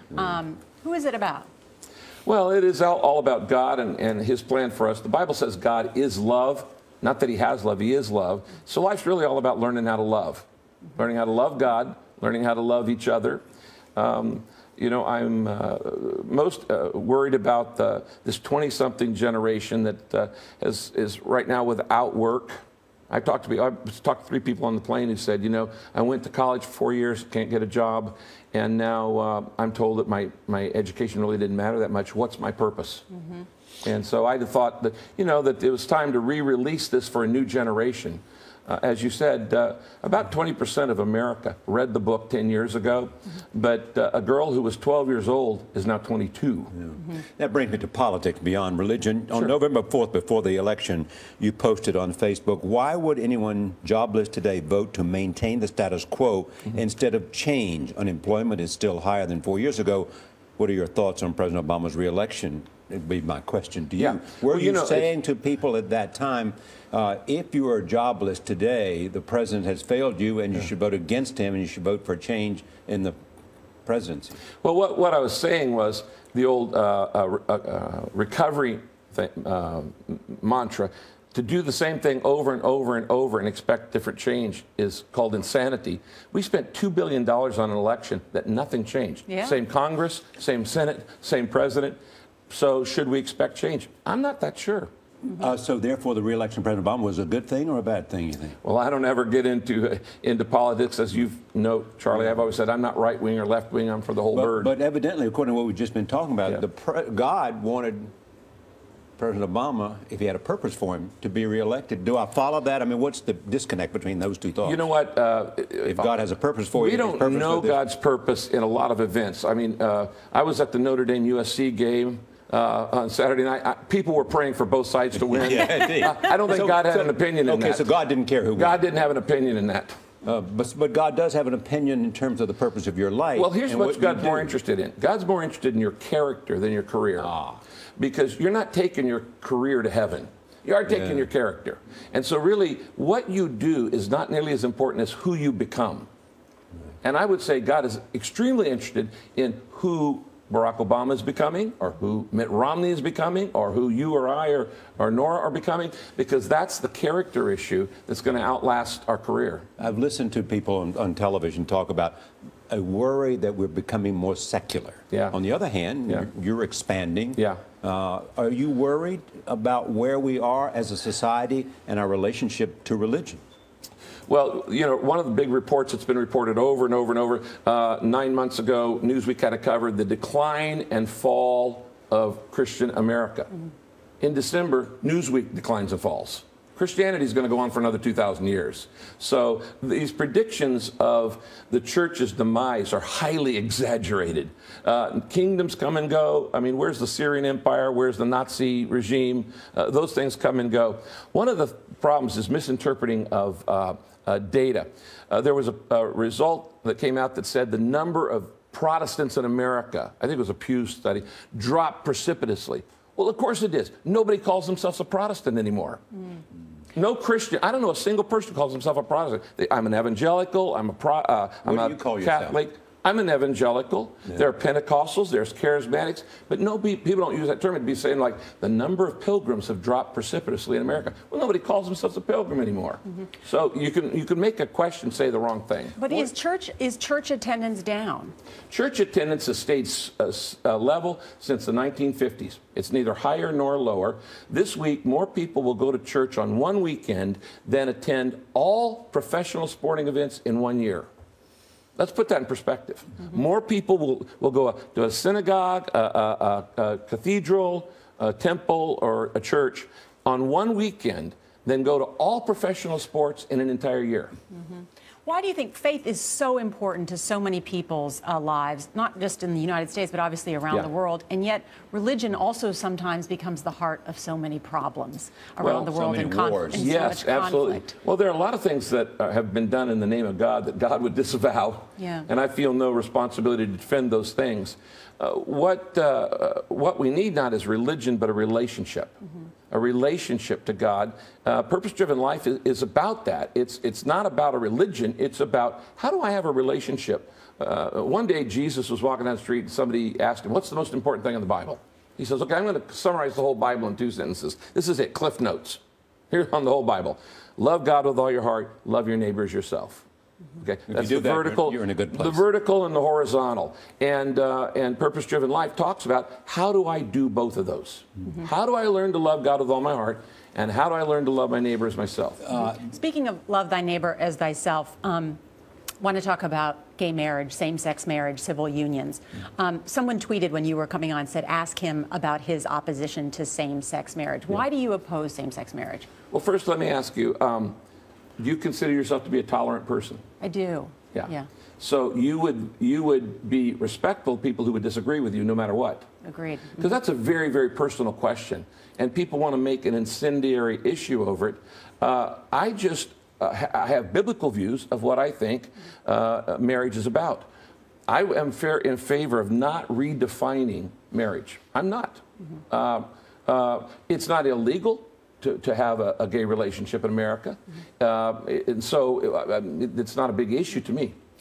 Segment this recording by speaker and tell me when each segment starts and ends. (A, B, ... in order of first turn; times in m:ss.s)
0:00.1-0:01.5 A
0:02.3-0:10.4 B
0:11.0-0:13.4 B
0:14.0-0:33.0 B
0:33.8-0:46.7 B
0:46.8-1:13.2 C
1:04.0-1:05.1 B
1:13.8-1:14.4 C
1:14.6-1:32.0 B
1:29.3-1:29.6 A
1:32.5-1:34.9 B
1:35.2-1:38.6 C
1:38.6-1:44.7 B
1:44.3-1:48.1 C
1:49.2-1:54.9 C
1:54.6-1:56.1 B
1:55.9-1:57.8 C
1:56.7-2:07.9 B
2:05.3-2:08.8 C
2:08.6-2:10.0 B
2:10.2-2:14.6 C
2:13.4-2:17.3 B
2:17.2-2:17.6 C
2:18.0-2:26.1 B
2:27.0-2:39.7 B
2:39.8-2:42.2 C
2:42.7-2:53.4 C
2:45.1-2:45.4 B
2:47.4-2:47.6 B
2:54.3-3:03.5 B
3:04.2-3:36.0 B
3:37.0-3:56.3 B
3:41.6-3:42.6 C
3:56.0-3:58.3 A
3:58.7-4:11.1 B
4:12.0-4:24.4 B
4:24.5-4:37.9 A
4:35.6-4:35.9 B
4:35.8-4:36.9 C
4:36.7-4:49.1 B
4:42.0-4:42.3 A
4:49.7-5:05.8 B
5:06.3-5:10.0 B
5:10.6-5:22.5 B
5:10.9-5:12.4 C
5:22.5-5:25.4 A
5:26.0-5:36.1 A
5:36.3-5:37.8 B
5:38.4-5:40.2 B
5:40.4-5:41.5 A
5:41.1-5:46.1 B
5:46.2-5:46.9 A
5:46.8-5:57.5 B
5:58.1-6:11.2 B